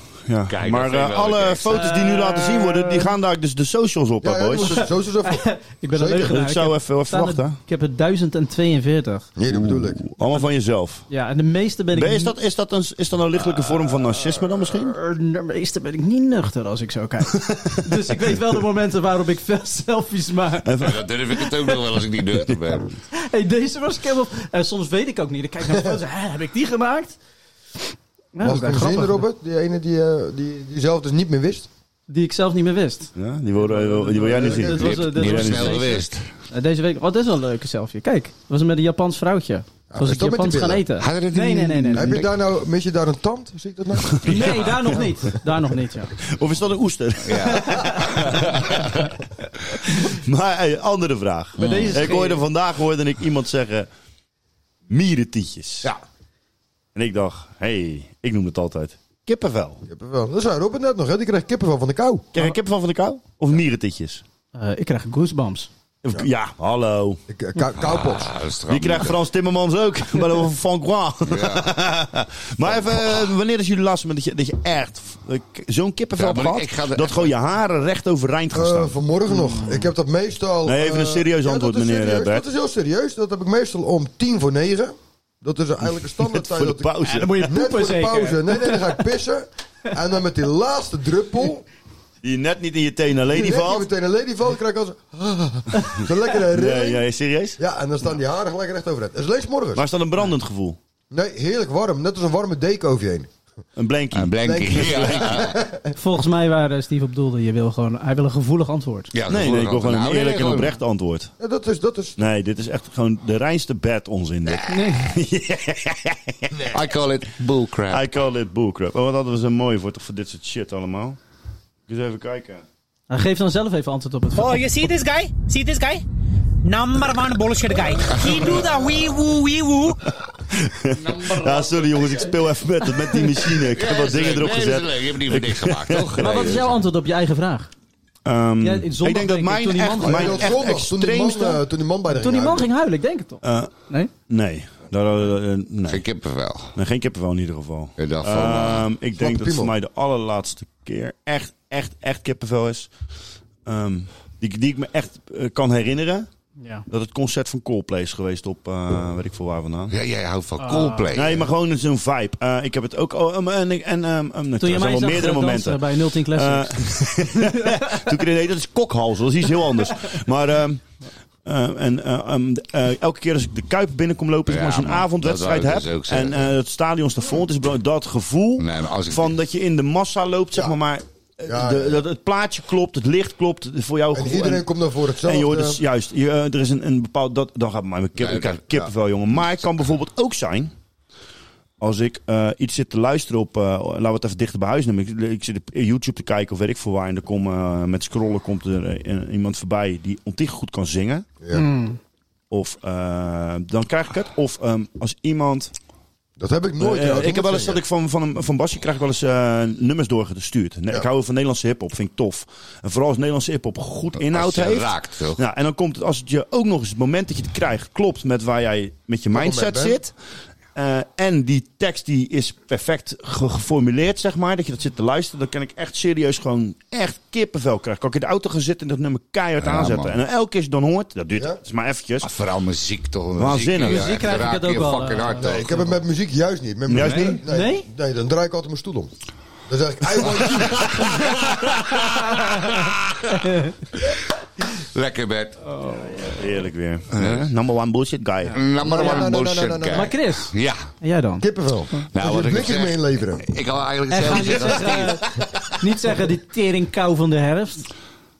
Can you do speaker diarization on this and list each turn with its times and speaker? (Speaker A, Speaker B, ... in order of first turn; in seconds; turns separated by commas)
Speaker A: 0.3-4.8, Speaker B: 0.5-1.8, Speaker C: 1.7-3.1, Speaker D: 4.2-6.4, Speaker C: 4.6-9.3, Speaker A: 6.2-7.6, Speaker D: 9.4-10.0, Speaker A: 9.5-11.1, Speaker C: 11.1-12.3, Speaker A: 11.9-14.9, Speaker C: 14.7-20.7, Speaker A: 17.4-17.9, Speaker A: 20.6-21.0, Speaker B: 20.8-23.0, Speaker C: 21.4-21.7, Speaker C: 23.1-27.2, Speaker C: 28.3-29.2, Speaker D: 28.4-31.7, Speaker C: 32.1-42.2, Speaker A: 33.1-36.0, Speaker D: 34.4-34.7, Speaker B: 34.7-36.3, Speaker D: 39.9-40.8, Speaker B: 41.0-42.3, Speaker D: 41.9-44.6, Speaker C: 44.2-46.1, Speaker A: 46.2-48.5, Speaker B: 47.2-48.9, Speaker C: 47.4-48.1, Speaker A: 50.0-53.9, Speaker C: 51.6-52.4, Speaker A: 54.9-55.9, Speaker A: 56.9-59.8, Speaker D: 59.9-62.2, Speaker A: 62.3-64.2, Speaker C: 64.5-65.7, Speaker A: 66.0-67.2, Speaker D: 67.3-68.3, Speaker B: 67.7-69.2, Speaker A: 68.7-79.0, Speaker B: 71.2-71.8, Speaker B: 72.6-73.3, Speaker B: 76.2-77.3, Speaker D: 78.5-91.7, Speaker C: 79.3-79.9, Speaker A: 80.6-82.4, Speaker A: 85.9-87.6, Speaker C: 87.0-89.0, Speaker A: 92.2-93.9, Speaker D: 93.3-97.0, Speaker A: 96.5-97.6, Speaker D: 97.6-99.8, Speaker A: 99.7-100.8, Speaker D: 101.1-103.3, Speaker A: 103.8-105.4, Speaker B: 104.1-105.6, Speaker D: 104.4-105.9, Speaker C: 106.0-109.1, Speaker B: 109.1-110.8, Speaker A: 109.3-111.3, Speaker D: 111.4-112.2, Speaker A: 112.2-116.5, Speaker B: 114.5-114.8, Speaker C: 114.7-115.1, Speaker D: 116.5-116.8, Speaker B: 116.7-118.1, Speaker A: 117.9-121.2, Speaker A: 121.9-122.6, Speaker C: 123.1-124.6, Speaker E: 124.3-126.0, Speaker E: 126.6-130.0, Speaker B: 128.1-129.0, Speaker A: 130.5-136.5, Speaker B: 130.9-132.4, Speaker B: 133.7-136.7, Speaker C: 136.2-137.7, Speaker A: 138.2-141.6, Speaker C: 138.6-140.5, Speaker D: 140.0-142.7, Speaker C: 142.1-144.1, Speaker A: 143.4-143.7, Speaker A: 144.3-146.0, Speaker B: 145.9-146.8, Speaker A: 146.7-152.9, Speaker B: 148.0-148.9, Speaker D: 149.2-149.7, Speaker A: 153.6-156.3, Speaker C: 156.6-156.8, Speaker A: 156.9-159.9, Speaker B: 159.9-161.5, Speaker C: 160.6-161.1, Speaker A: 161.1-170.8, Speaker C: 164.6-168.0, Speaker A: 171.4-184.7, Speaker B: 174.4-176.5, Speaker B: 178.6-179.3, Speaker D: 181.5-182.0, Speaker D: 184.1-185.8, Speaker A: 185.2-190.7, Speaker B: 188.2-188.6, Speaker A: 191.8-201.2, Speaker D: 201.4-201.7, Speaker C: 201.5-202.0, Speaker A: 202.5-205.7, Speaker D: 206.4-207.8, Speaker A: 206.8-220.1, Speaker B: 214.2-215.4, Speaker D: 219.3-220.0, Speaker A: 220.7-232.3, Speaker B: 229.6-230.2, Speaker B: 232.2-235.8, Speaker A: 233.4-234.1, Speaker C: 233.8-235.9, Speaker D: 235.4-239.1, Speaker A: 236.9-237.4, Speaker C: 237.1-237.9, Speaker D: 239.7-241.4, Speaker B: 240.8-243.4, Speaker C: 242.0-242.7, Speaker C: 243.3-243.7, Speaker B: 244.7-245.6, Speaker C: 245.7-246.4, Speaker A: 246.3-248.6, Speaker B: 247.1-247.5, Speaker C: 248.4-249.2, Speaker B: 248.5-250.9, Speaker D: 248.8-250.1, Speaker C: 249.9-252.0, Speaker D: 251.4-253.5, Speaker B: 252.1-255.7, Speaker C: 254.1-257.9